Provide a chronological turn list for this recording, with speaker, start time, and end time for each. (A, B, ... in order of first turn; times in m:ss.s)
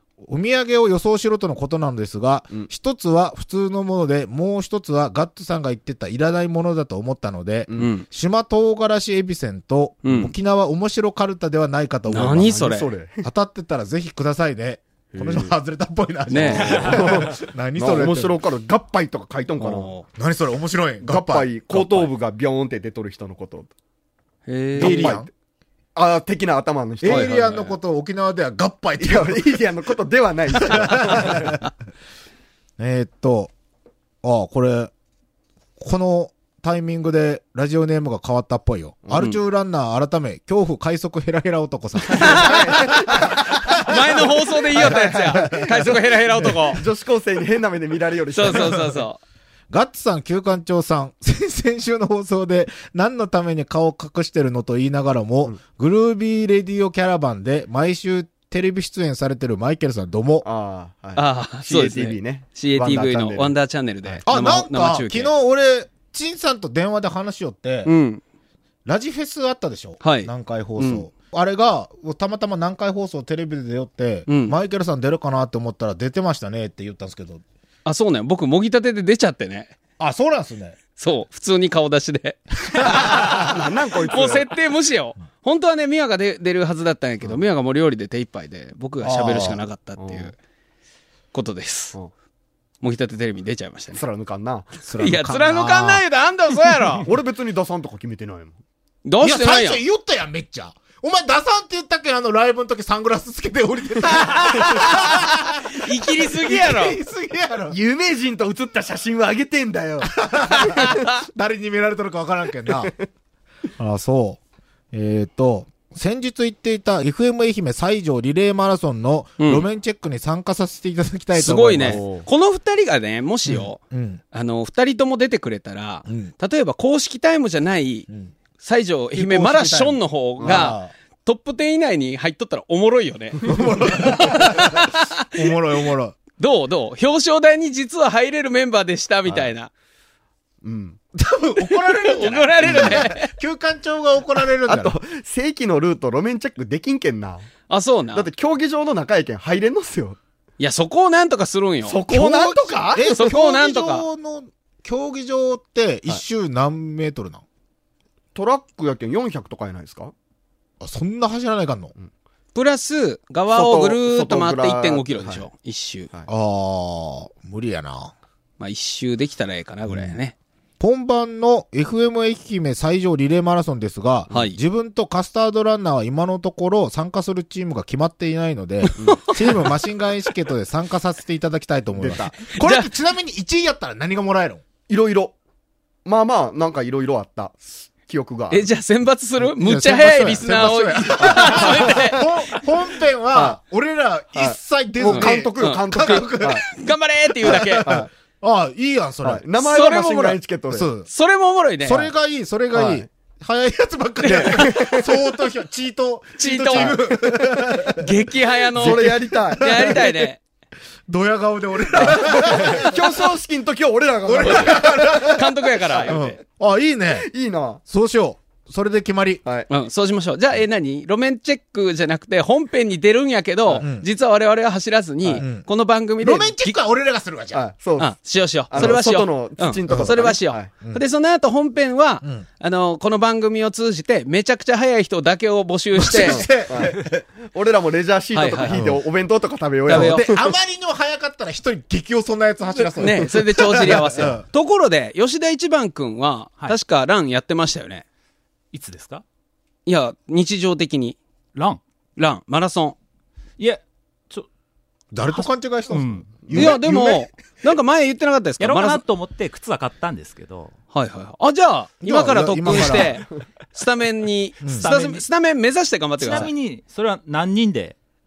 0:00.2-0:18.4 A
0:07.7-0:08.1 B
0:10.0-0:10.3 B
0:12.1-0:12.9 B
0:12.3-0:13.3 C
0:15.1-0:15.5 C
0:16.3-0:17.0 B
0:16.3-0:19.9 C
0:16.6-0:17.2 D
0:19.6-0:20.1 B
0:20.2-0:22.1 A
0:21.0-0:23.7 C
0:24.5-0:25.2 B
0:24.8-0:25.3 A
0:24.8-0:25.3 C
0:26.0-0:27.7 C
0:27.0-0:29.6 A
0:27.1-0:27.6 B
0:29.0-0:31.5 C
0:30.6-0:31.6 A
0:32.8-0:33.5 A
0:34.2-0:34.9 A
0:35.8-0:44.2 A
0:42.1-0:44.0 C
0:42.1-0:42.9 B
0:43.7-0:46.8 B
0:44.7-0:49.0 C
0:44.8-0:45.9 A
0:48.3-0:49.2 B
0:48.5-0:48.9 A
0:49.7-1:00.5 A
1:00.4-1:04.2 C
1:01.2-1:05.3 B
1:04.3-1:07.9 A
1:07.8-1:08.2 B
1:08.9-1:17.4 A
1:10.0-1:11.0 B
1:14.3-1:14.6 B
1:17.8-1:19.8 B
1:20.0-1:20.8 A
1:21.0-1:30.4 B
1:22.6-1:23.4 A
1:23.1-1:24.5 C
1:29.0-1:29.6 A
1:30.0-1:30.3 C
1:31.3-1:32.0 B
1:32.8-1:34.0 B
1:34.0-1:34.8 C
1:34.8-1:36.0 A
1:35.0-1:37.1 B
1:37.0-1:38.6 C
1:39.0-1:39.8 B
1:39.2-1:47.8 A
1:44.1-1:47.0 B
1:47.7-1:51.1 C
1:50.1-1:52.9 A
1:53.8-1:54.4 A
1:54.9-2:02.0 A
1:59.4-1:59.7 B
2:01.3-2:03.8 B
2:01.8-2:02.3 C
2:03.5-2:04.2 A
2:04.3-2:08.1 B
2:06.1-2:06.3 A
2:08.6-2:15.2 B
2:09.1-2:10.9 A
2:10.4-2:10.7 C
2:13.5-2:16.2 A
2:16.4-2:19.7 B
2:19.3-2:19.5 C
2:20.6-2:21.0 C
2:21.2-2:25.0 A
2:21.6-2:23.3 B
2:22.7-2:23.0 C
2:24.7-2:27.5 C
2:27.7-2:28.3 B
2:28.1-2:30.2 C
2:30.6-2:32.0 B
2:31.8-2:33.2 C
2:32.1-2:37.4 A
2:33.1-2:34.1 B
2:38.4-2:40.1 C
2:40.8-2:41.9 A
2:42.6-2:46.1 B
2:43.5-2:45.4 C
2:46.3-2:48.1 A
2:48.6-2:50.4 B
2:50.8-3:04.6 A
2:54.3-2:54.6 B
2:59.0-2:59.3 C
2:59.0-2:59.4 B
3:02.0-3:02.3 C
3:02.6-3:02.9 B
3:04.9-3:05.4 C
3:06.0-3:08.7 C
3:08.5-3:12.6 B
3:09.4-3:16.7 A
3:11.2-3:12.2 C
3:13.3-3:13.6 C
3:14.4-3:16.7 C
3:15.0-3:17.9 B
3:17.4-3:19.4 A
3:17.4-3:18.1 C
3:19.2-3:20.9 C
3:19.6-3:20.4 B
3:20.7-3:21.1 A
3:21.0-3:22.1 B
3:21.8-3:28.0 A
3:22.7-3:23.1 C
3:24.2-3:24.7 B
3:24.2-3:25.1 C
3:26.4-3:27.0 B
3:26.7-3:27.7 C
3:28.0-3:30.4 B
3:28.8-3:30.0 C
3:28.8-3:30.3 A
3:31.1-3:33.3 A
3:31.9-3:36.2 C
3:34.2-3:35.5 A
3:34.4-3:36.4 B
3:36.1-3:37.3 A
3:37.1-3:37.8 C
3:37.9-3:39.4 A
3:39.7-3:46.8 B
3:43.8-3:44.1 A
3:45.4-3:45.7 A
3:46.2-3:47.6 A
3:47.5-3:48.2 C
3:48.0-3:56.5 B
3:48.7-3:50.7 C
3:49.9-3:50.2 A
3:56.0-3:57.2 A
3:56.2-4:00.5 C
3:58.3-3:58.9 B
3:58.7-3:59.0 A
3:59.9-4:00.3 B
3:59.9-4:04.4 A
4:03.0-4:08.0 B
4:03.6-4:04.0 C
4:08.7-4:09.2 D
4:09.9-4:11.2 B
4:11.6-4:11.8 D
4:12.2-4:13.0 B
4:13.6-4:14.5 D
4:15.1-4:17.3 A
4:15.3-4:16.7 D
4:16.5-4:19.0 B
4:18.6-4:20.7 D
4:20.9-4:26.5 B
4:22.0-4:23.2 A
4:24.6-4:24.9 A
4:24.6-4:25.2 D
4:26.2-4:28.0 D